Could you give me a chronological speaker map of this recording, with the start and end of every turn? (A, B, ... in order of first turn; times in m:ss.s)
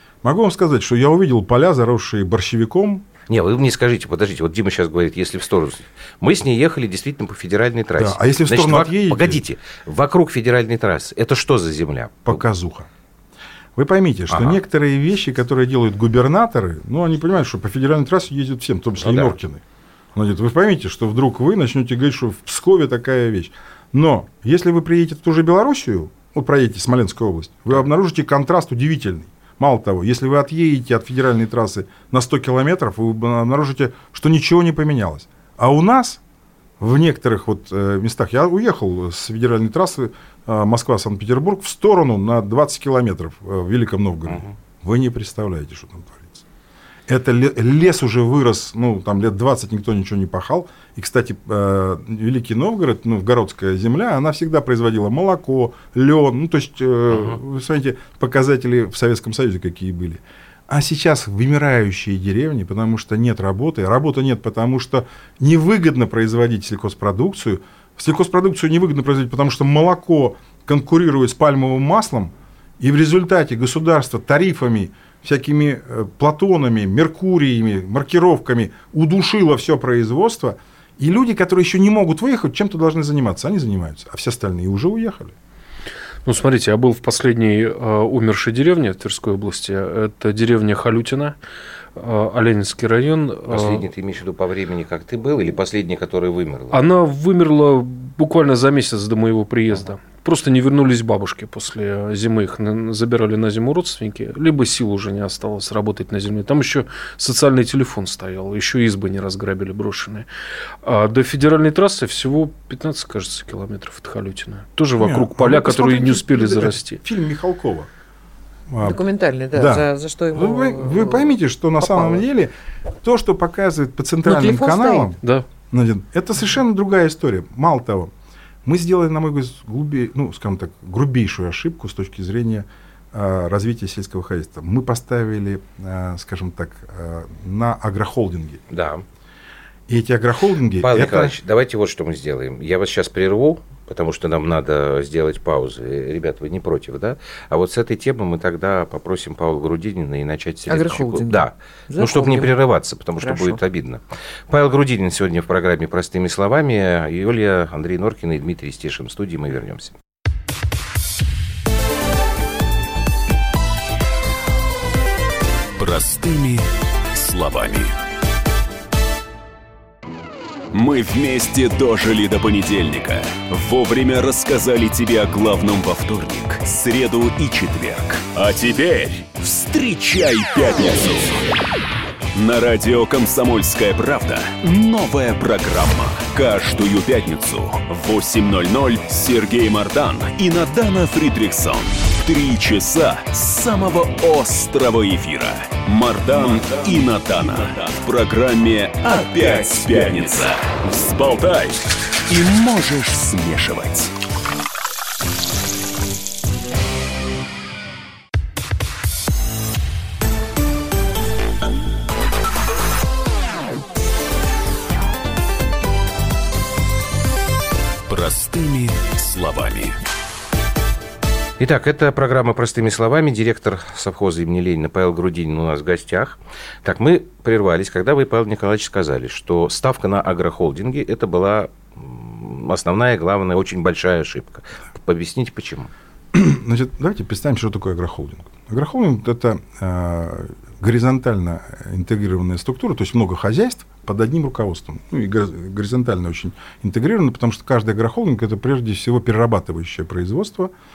0:00.2-0:03.1 A
0:03.3-0:12.4 B
0:08.0-0:09.4 A
0:12.3-0:12.9 A
0:13.8-0:19.6 A
0:14.3-0:14.6 B
0:19.0-0:19.4 B
0:20.2-0:36.2 A
0:36.8-0:46.4 A
0:44.3-0:44.5 B
0:47.1-1:25.4 A
0:57.1-0:57.4 B
1:26.2-1:31.4 C
1:32.0-1:33.9 C
1:33.5-1:36.8 B
1:36.7-1:50.3 C
1:50.8-1:57.0 C
1:55.0-1:57.9 A
1:58.7-1:59.0 A
1:58.8-2:02.2 D
1:59.5-2:08.1 A
2:04.2-2:05.1 D
2:08.6-2:18.6 A
2:18.7-2:19.0 B
2:19.9-2:21.4 A
2:20.8-2:40.0 B
2:30.7-2:32.6 D
2:33.2-2:33.6 D
2:45.8-2:47.9 E
2:50.7-3:01.4 E
3:02.3-3:24.1 E
3:38.1-3:40.0 E
3:41.6-3:55.9 B
3:56.3-4:10.7 A